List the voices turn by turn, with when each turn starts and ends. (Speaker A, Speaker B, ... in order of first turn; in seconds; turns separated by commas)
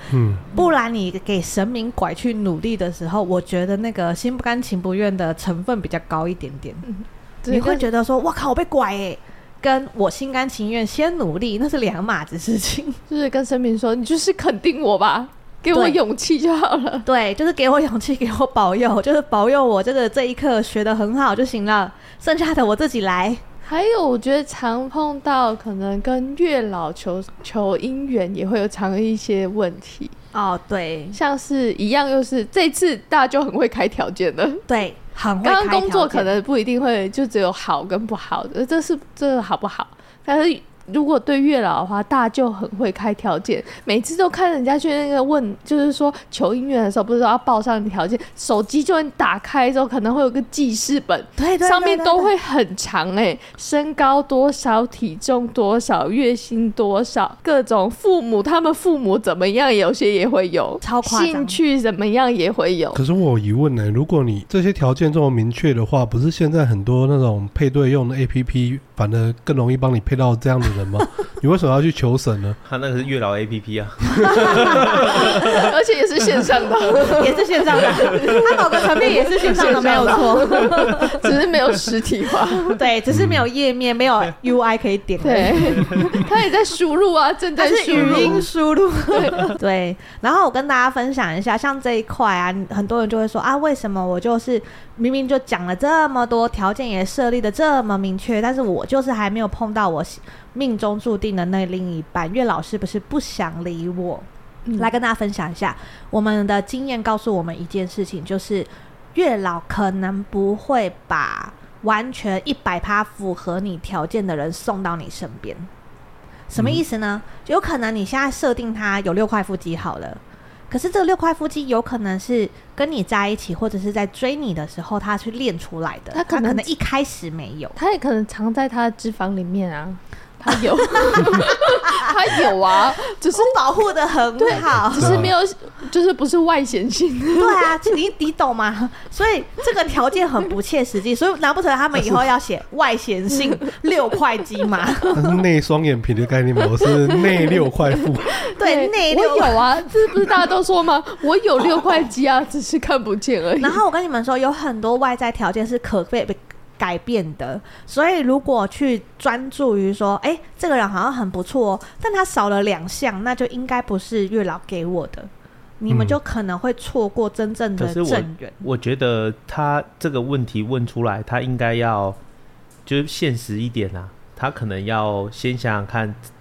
Speaker A: 0.1-0.4, Speaker B: 0.5-6.8, Speaker C: 6.8-7.8, Speaker B: 7.5-13.0, Speaker C: 13.1-17.1, Speaker B: 15.7-16.0, Speaker B: 17.1-23.4, Speaker C: 23.6-30.1, Speaker B: 30.3-31.2, Speaker C: 31.1-34.7, Speaker B: 34.7-36.3, Speaker C: 35.4-63.0, Speaker B: 51.4-52.3, Speaker B: 60.8-61.6, Speaker A: 62.9-72.6, Speaker D: 72.6-75.7, Speaker B: 74.3-74.7, Speaker C: 75.0-82.8, Speaker B: 77.1-81.2, Speaker D: 79.7-80.1, Speaker B: 82.7-86.0, Speaker A: 83.1-83.4, Speaker C: 85.2-88.5, Speaker B: 87.6-104.2, Speaker C: 89.1-89.5, Speaker B: 104.8-115.7, Speaker B: 116.5-127.8, Speaker C: 126.1-126.7, Speaker C: 127.8-133.5, Speaker B: 131.0-132.5, Speaker B: 133.3-135.2, Speaker C: 134.4-137.7, Speaker A: 134.7-135.3, Speaker B: 137.3-145.4, Speaker A: 145.1-148.3, Speaker C: 148.4-153.8, Speaker B: 148.6-149.7, Speaker B: 153.6-168.6, Speaker A: 165.9-166.2, Speaker D: 167.8-172.2, Speaker D: 172.8-176.2